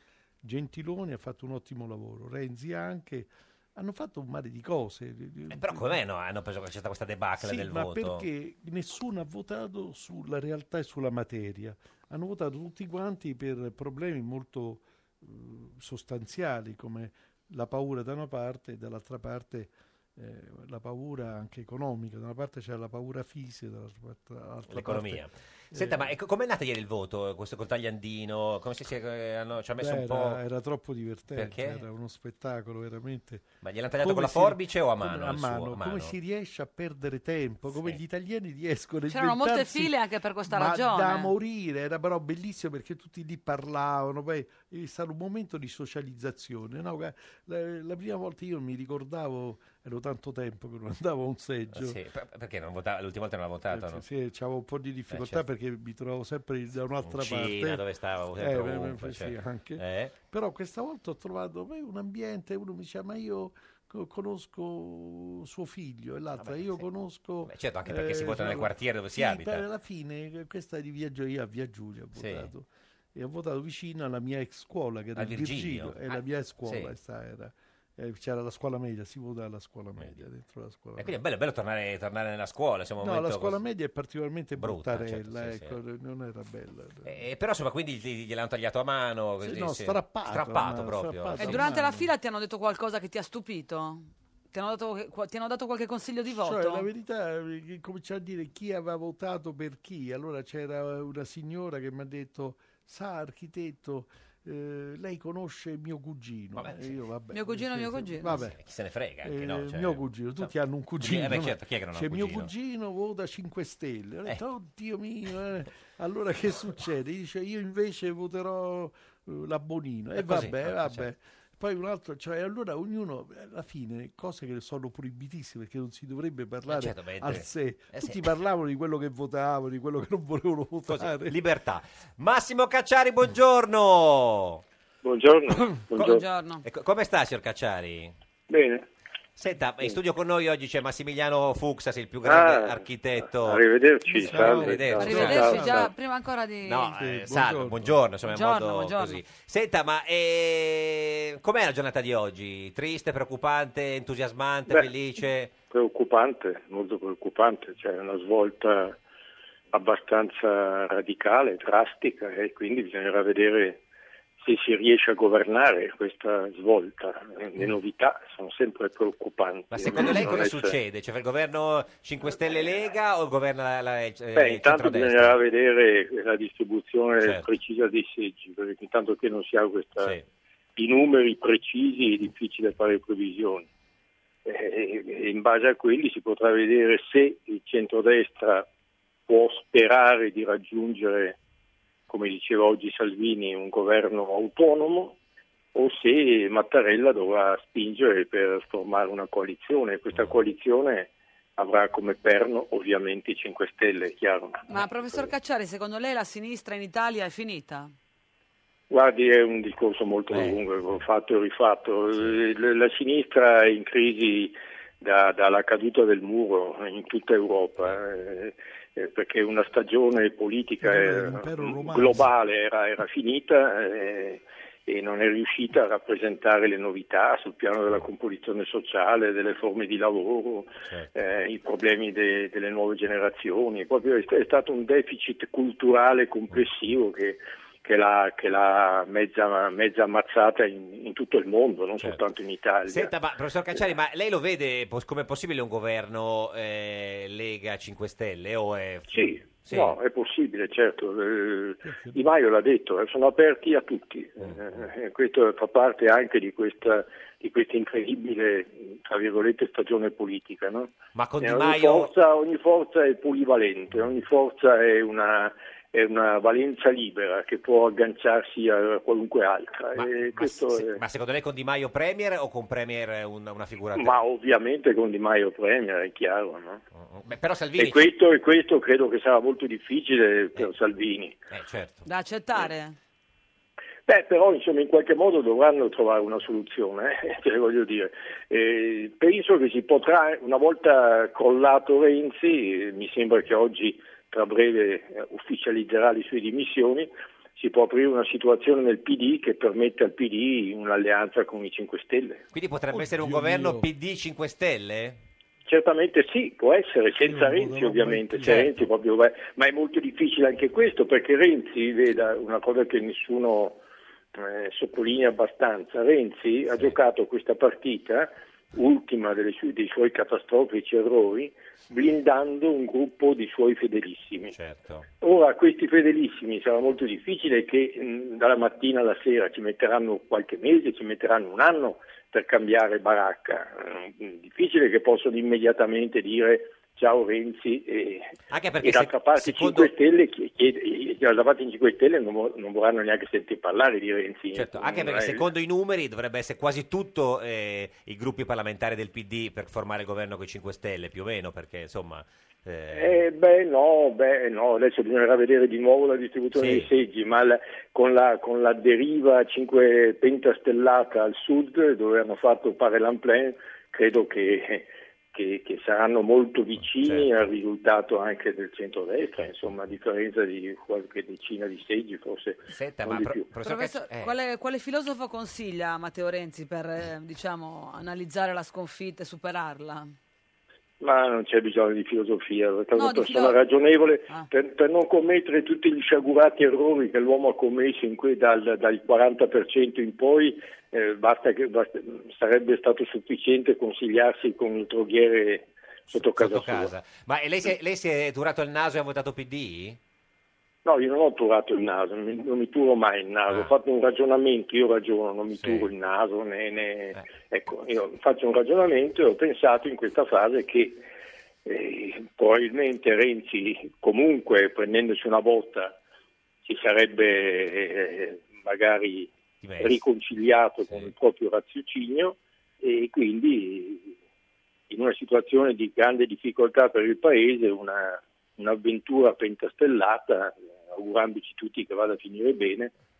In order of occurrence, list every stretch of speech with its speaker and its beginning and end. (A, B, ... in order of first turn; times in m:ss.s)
0:00.4-0:06.0 A
0:05.5-0:08.2 B
0:07.4-0:26.1 A
0:24.7-0:30.4 B
0:29.8-0:40.0 A
0:31.3-0:31.8 B
0:33.6-0:36.1 B
0:39.1-0:41.3 C
0:40.5-0:52.0 A
0:51.7-0:54.0 B
0:53.7-0:57.8 A
0:55.1-0:55.4 B
0:57.0-1:00.2 B
0:58.4-1:21.2 A
1:06.4-1:06.8 B
1:07.4-1:09.6 B
1:12.2-1:12.5 B
1:15.2-1:16.9 B
1:21.0-1:23.6 B
1:23.0-1:27.2 A
1:24.6-1:25.8 B
1:27.0-1:31.7 B
1:29.4-1:32.1 A
1:31.4-1:36.9 C
1:36.4-1:48.6 A
1:46.6-1:47.0 B
1:47.3-1:48.4 C
1:48.3-1:52.5 B
1:49.2-2:11.4 A
2:00.2-2:01.0 B
2:06.7-2:08.3 B
2:10.9-2:14.6 B
2:15.0-2:16.2 D
2:16.0-2:16.6 C
2:16.6-2:18.1 B
2:18.5-2:18.9 D
2:19.4-2:23.6 B
2:22.2-2:25.9 D
2:24.1-2:25.6 B
2:24.3-2:25.9 A
2:25.0-2:26.9 C
2:26.7-2:35.5 B
2:27.0-2:28.0 A
2:28.3-2:29.2 C
2:35.7-2:39.0 D
2:39.7-2:43.8 D
2:44.4-2:50.8 D
2:49.7-2:55.4 B
2:54.3-3:00.1 D
2:57.2-2:57.4 B
3:00.0-3:00.2 B
3:00.8-3:03.7 D
3:04.4-3:08.7 D
3:09.3-3:11.4 D
3:12.1-3:15.2 D
3:15.7-3:24.6 D
3:24.7-3:27.9 C
3:28.9-4:03.1 D
3:30.3-3:31.0 B
3:40.8-3:42.3 A
4:02.9-4:10.0 B
4:09.1-4:31.0 D
4:11.8-4:12.2 A
4:21.1-4:22.1 B
4:30.0-4:34.2 B
4:34.0-4:36.8 D
4:37.0-4:38.1 B
4:37.8-4:41.4 D
4:41.5-4:42.0 B
4:42.0-4:43.0 C
4:44.1-5:02.4 D
5:02.5-5:05.2 B
5:02.9-5:03.8 A
5:05.7-5:13.8 D
5:07.2-5:08.7 A
5:08.4-5:08.7 B
5:14.3-5:24.5 D
5:24.5-5:25.1 B
5:25.2-5:38.3 D
5:38.5-5:39.9 B
5:38.8-5:45.4 D
5:44.6-5:53.2 B
5:52.9-6:13.4 D
5:56.6-5:56.9 B
6:06.8-6:07.5 B
6:12.7-6:14.3 B
6:13.6-6:20.1 C
6:21.0-6:36.9 D
6:23.0-6:23.6 C
6:36.1-6:40.0 B
6:40.8-6:51.0 D
6:45.6-6:45.9 B
6:51.6-6:56.0 D
6:56.6-7:04.1 D
6:59.6-7:00.0 B
7:00.8-7:01.1 B
7:04.9-7:12.9 D